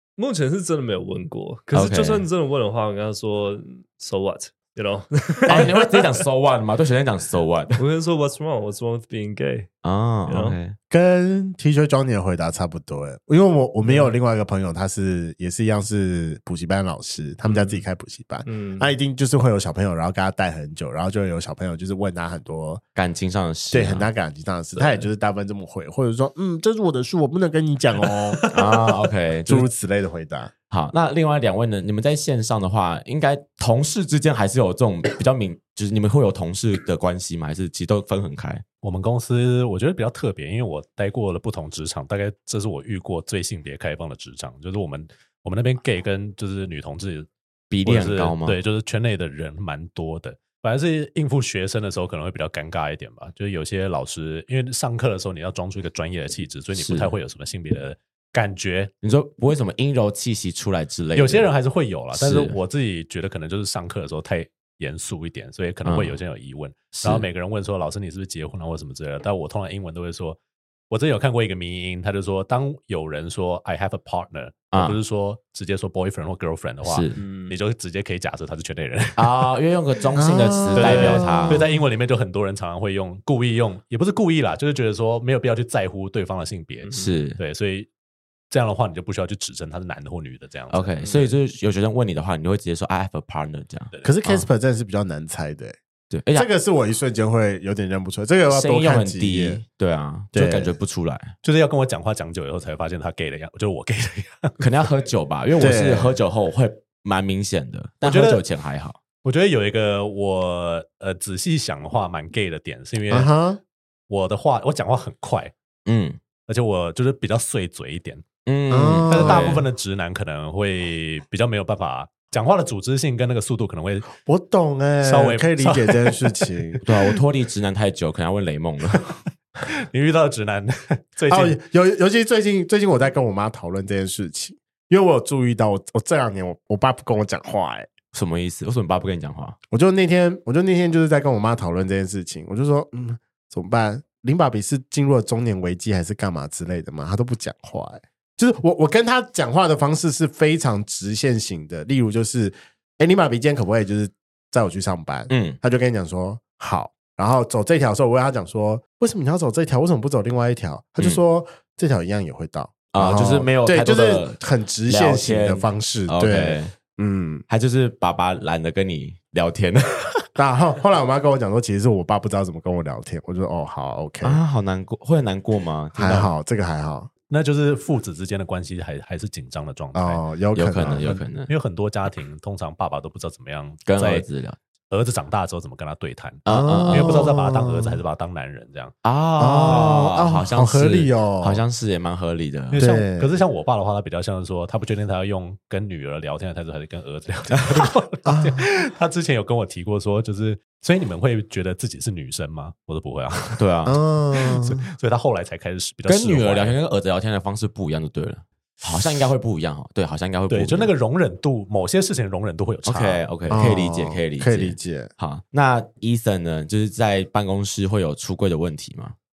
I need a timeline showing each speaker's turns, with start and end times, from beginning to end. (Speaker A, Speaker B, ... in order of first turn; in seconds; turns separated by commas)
Speaker A: 0.2-6.2, Speaker B: 1.7-2.2, Speaker B: 5.5-7.8, Speaker A: 7.8-9.7, Speaker B: 9.8-10.8, Speaker A: 10.2-10.6, Speaker C: 10.9-22.8, Speaker A: 13.8-14.2, Speaker A: 17.4-17.8, Speaker A: 18.4-18.9, Speaker B: 22.9-24.1, Speaker C: 23.7-28.4, Speaker A: 24.8-25.1, Speaker B: 28.5-29.7, Speaker C: 29.4-30.5, Speaker B: 30.7-38.6, Speaker D: 38.8-47.3, Speaker B: 47.7-48.6, Speaker D: 47.8-58.9, Speaker B: 56.7-57.1, Speaker B: 59.0-61.5, Speaker D: 61.1-70.4, Speaker B: 62.1-62.5, Speaker B: 65.8-66.2, Speaker B: 67.0-67.2, Speaker D: 70.9-79.5, Speaker B: 74.7-75.0, Speaker B: 76.8-77.2, Speaker A: 77.2-77.6, Speaker B: 79.2-81.6, Speaker C: 80.2-81.8, Speaker D: 80.7-87.9, Speaker A: 86.8-87.2, Speaker B: 87.0-87.4, Speaker D: 88.5-91.1, Speaker B: 90.7-93.9, Speaker A: 91.0-91.3, Speaker D: 93.9-94.4, Speaker C: 94.0-95.8, Speaker B: 96.1-96.5, Speaker C: 96.3-99.6, Speaker B: 98.5-101.3, Speaker C: 100.3-100.8, Speaker D: 101.4-104.6, Speaker B: 104.6-109.0, Speaker C: 105.6-106.2, Speaker D: 108.0-108.4, Speaker D: 109.2-113.3, Speaker C: 113.1-113.6, Speaker D: 114.1-115.5, Speaker B: 115.8-116.2, Speaker D: 116.5-118.2, Speaker B: 118.5-119.6, Speaker C: 118.7-119.6, Speaker D: 119.1-124.1, Speaker C: 124.2-126.8, Speaker D: 125.0-126.8, Speaker B: 126.8-129.0, Speaker D: 129.6-131.6, Speaker C: 131.3-137.9, Speaker B: 138.1-139.6, Speaker C: 139.7-167.4, Speaker B: 155.3-155.6, Speaker B: 162.9-166.7, Speaker B: 167.5-170.3, Speaker C: 170.3-174.4, Speaker B: 174.2-176.3, Speaker C: 175.9-177.1, Speaker D: 177.3-180.2, Speaker C: 179.9-181.2, Speaker B: 180.6-181.5, Speaker D: 181.4-184.2, Speaker B: 183.8-184.6, Speaker D: 184.9-188.9, Speaker B: 186.4-187.3, Speaker C: 186.5-188.0, Speaker B: 189.0-192.8, Speaker C: 189.4-191.6, Speaker D: 192.7-203.7, Speaker C: 192.7-193.3, Speaker B: 197.6-197.9, Speaker C: 198.2-198.6, Speaker B: 203.6-204.0, Speaker C: 203.8-204.8, Speaker D: 204.5-206.8, Speaker B: 206.1-210.9, Speaker D: 210.5-213.2, Speaker B: 212.8-219.1, Speaker C: 213.5-215.1